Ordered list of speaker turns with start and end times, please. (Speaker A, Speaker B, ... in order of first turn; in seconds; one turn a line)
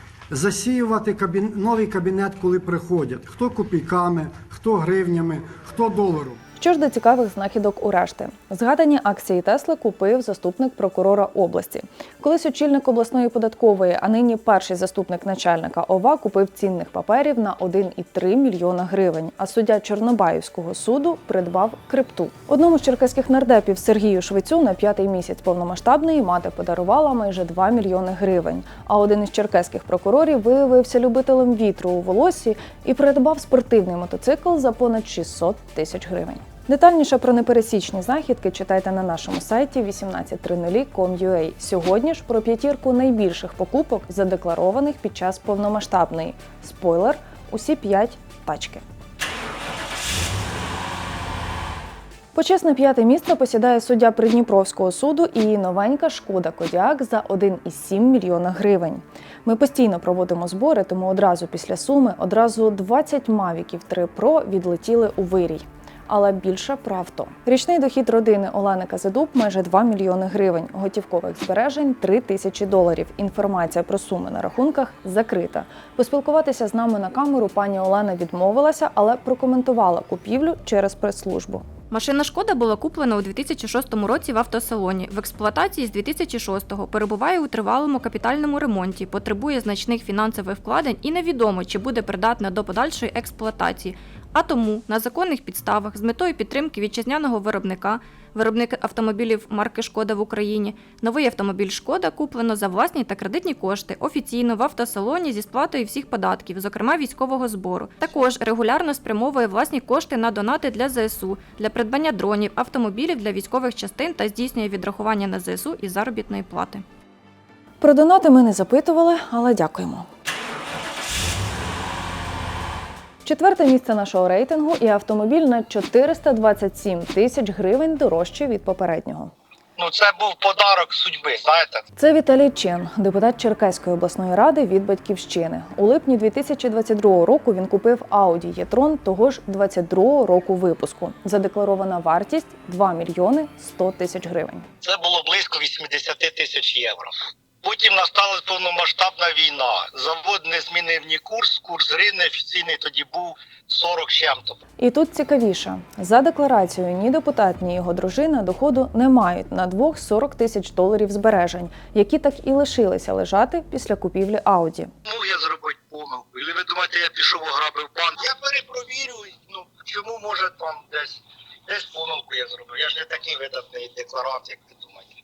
Speaker A: 0.3-6.4
Speaker B: 6.6-48.8
Speaker B: 52.3-81.6
Speaker C: 81.9-116.8
Speaker B: 117.8-120.1
Speaker B: 123.2-129.3
Speaker D: 129.8-131.8
Speaker B: 132.0-144.7
Speaker D: 144.8-154.6
Speaker B: 154.8-164.9
Speaker D: 165.1-175.1